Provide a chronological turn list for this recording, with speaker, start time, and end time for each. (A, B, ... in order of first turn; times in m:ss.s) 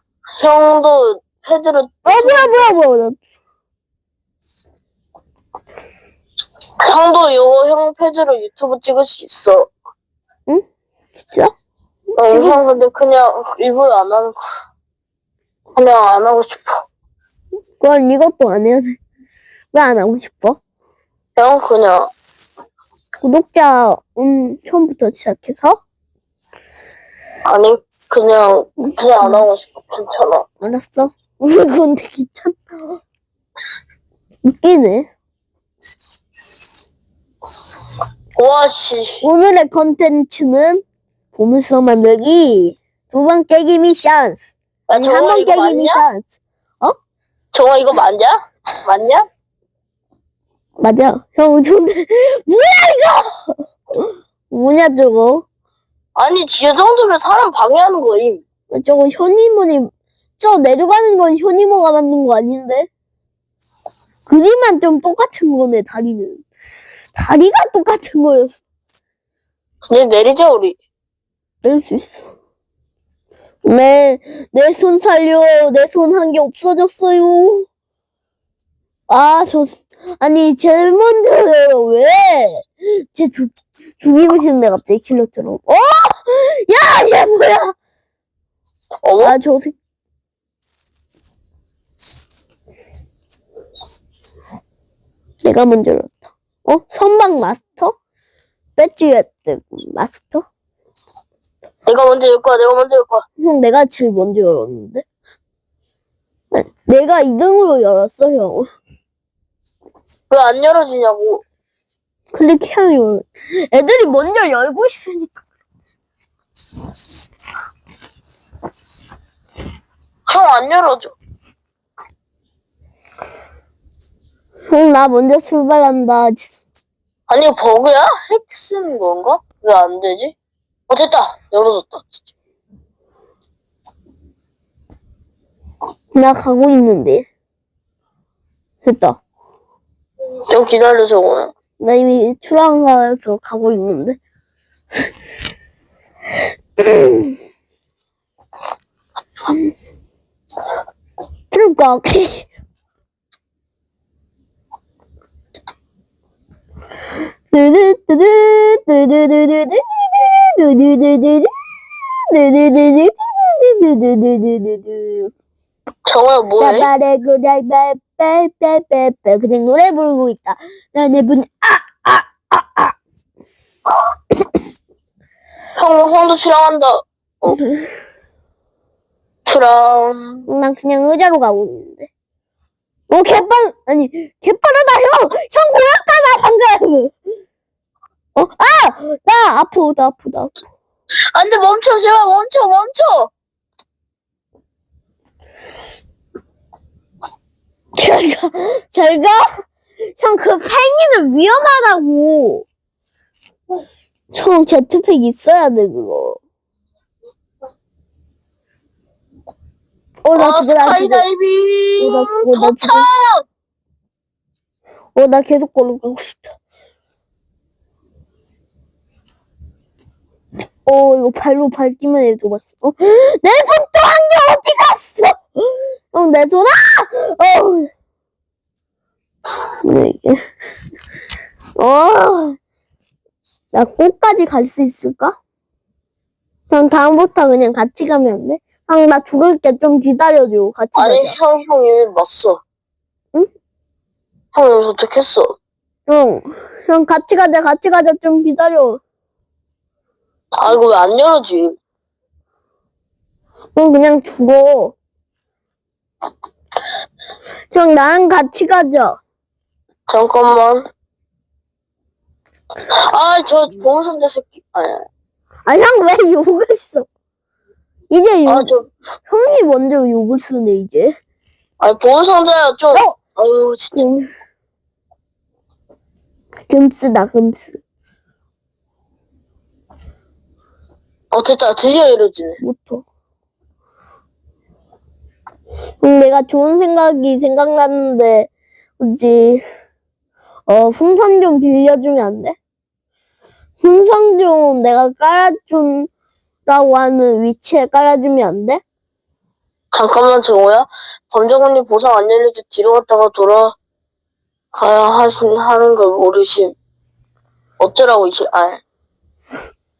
0:00.4-0:02.7 A
0:02.0-0:03.2 B
0:06.8-0:09.7 A
0:12.2-0:14.4 A
0:12.2-0:12.6 B
0:15.8-0:16.8 A
0:17.8-0:19.0 B
0:19.7-0:20.6 B
0:21.4-0:22.1 A
0:23.2-0:25.8 B
0:27.4-0:30.4 A
0:28.8-0:29.4 B
0:30.6-0:33.0 B
0:34.4-0:35.1 B
0:38.4-0:39.2 A
0:39.2-0:40.8 B
0:41.3-0:44.4 B
0:44.9-0:46.0 A
0:44.9-0:46.3 B
0:47.5-0:49.3 A
0:50.8-0:55.4 B
0:56.2-0:58.4 A
0:58.7-1:02.9 B
1:04.3-1:06.4 B
1:07.1-1:08.6 B
1:09.9-1:10.8 A
1:11.6-1:12.3 B
1:13.6-1:17.7 B
1:19.1-1:27.7 B
1:29.0-1:29.4 A
1:29.2-1:29.7 B
1:35.4-1:37.9 B
1:38.8-1:40.4 B
1:41.8-1:43.2 A
1:43.4-1:45.0 B
1:46.5-1:48.6 B
1:50.3-1:51.4 A
1:52.3-1:55.4 B
2:00.3-2:01.1 A
2:04.7-2:06.6 B
2:07.3-2:10.3 A
2:10.9-2:12.1 A
2:16.1-2:17.2 B
2:18.8-2:19.2 B
2:20.5-2:21.5 A
2:21.8-2:24.2 B
2:26.8-2:27.3 B
2:31.5-2:32.5 B
2:37.5-2:45.3 B
2:46.0-2:46.9 A
2:46.6-2:52.9 B
2:55.8-2:57.6 A
2:57.4-2:57.9 B
2:59.4-3:00.4 A
3:00.5-3:02.1 B
3:03.1-3:07.2 B
3:08.3-3:10.6 B
3:11.3-3:13.3 A
3:18.0-3:19.6 B
3:20.2-3:22.6 B
3:24.3-3:26.4 B
3:30.2-3:31.3 B
3:30.4-3:33.4 A
3:32.0-3:33.1 B
3:35.1-3:36.5 B
3:40.8-3:47.9 B
3:49.8-3:50.4 B
3:51.8-3:52.6 B
3:53.7-3:55.4 B
3:56.7-4:01.4 B
4:00.9-4:02.6 A
4:04.5-4:05.6 A
4:06.1-4:09.0 B
4:10.6-4:11.8 A
4:13.7-4:14.9 B
4:17.7-4:19.2 B
4:20.1-4:20.9 A
4:22.9-4:25.0 A
4:25.6-4:27.1 B
4:28.1-4:28.7 B
4:28.4-4:28.9 A
4:29.3-4:31.2 B
4:31.8-4:34.0 A
4:32.9-4:33.2 B
4:33.9-4:34.3 B
4:36.7-4:37.8 B
4:41.3-4:42.6 A
4:42.6-4:43.0 B
4:46.0-4:49.6 B
4:50.7-4:52.6 B
4:53.8-4:56.1 B
4:56.6-4:58.8 B
4:59.9-5:03.7 A
5:04.7-5:06.7 A
5:07.8-5:08.8 A